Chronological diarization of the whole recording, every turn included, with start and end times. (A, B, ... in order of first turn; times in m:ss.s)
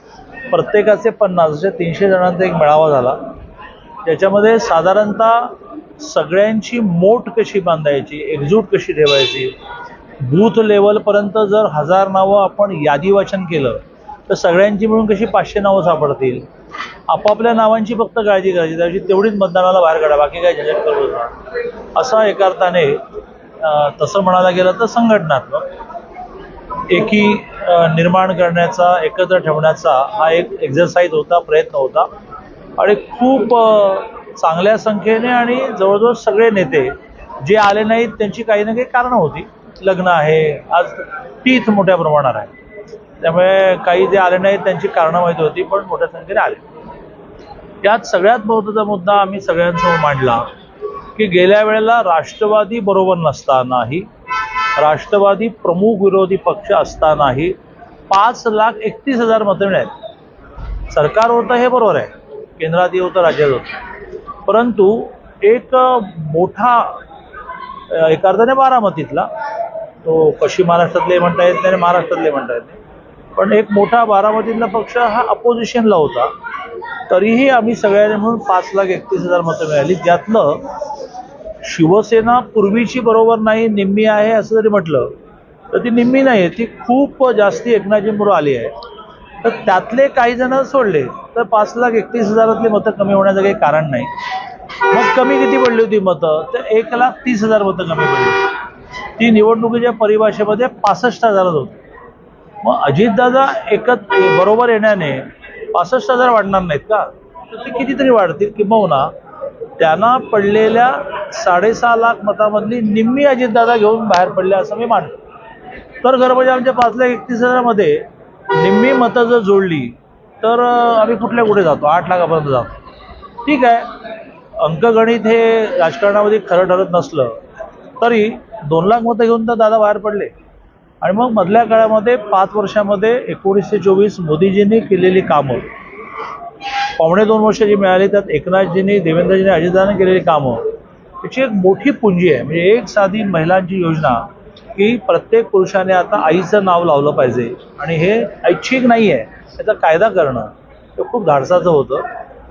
0:00.5-0:03.3 A
0:04.0-0:09.5 A
0:10.2-0:16.4 A
0:17.1-0:21.3 A
0:21.9-0:23.0 A
0:23.6-0:25.7 A
0:26.9-0:32.1 A
0:32.8-0:42.5 A
0:43.2-0:46.6 A
0:47.8-0:50.5 A
0:51.2-0:54.1 A
0:54.8-0:57.5 A
0:58.1-0:59.9 A
1:00.9-1:03.7 A
1:04.4-1:07.0 A
1:07.9-1:09.3 A
1:10.0-1:12.8 A
1:13.4-1:16.3 A
1:17.1-1:20.6 A
1:21.6-1:25.2 A
1:25.7-1:28.7 A
1:29.4-1:34.1 A
1:34.9-1:38.5 A
1:39.2-1:41.8 A
1:42.6-1:49.1 A
1:49.8-1:55.1 A
1:56.0-2:02.8 A
2:03.4-2:03.9 A
2:04.6-2:07.4 A
2:08.0-2:10.3 A
2:11.0-2:15.7 A
2:17.0-2:20.6 A
2:21.2-2:32.0 A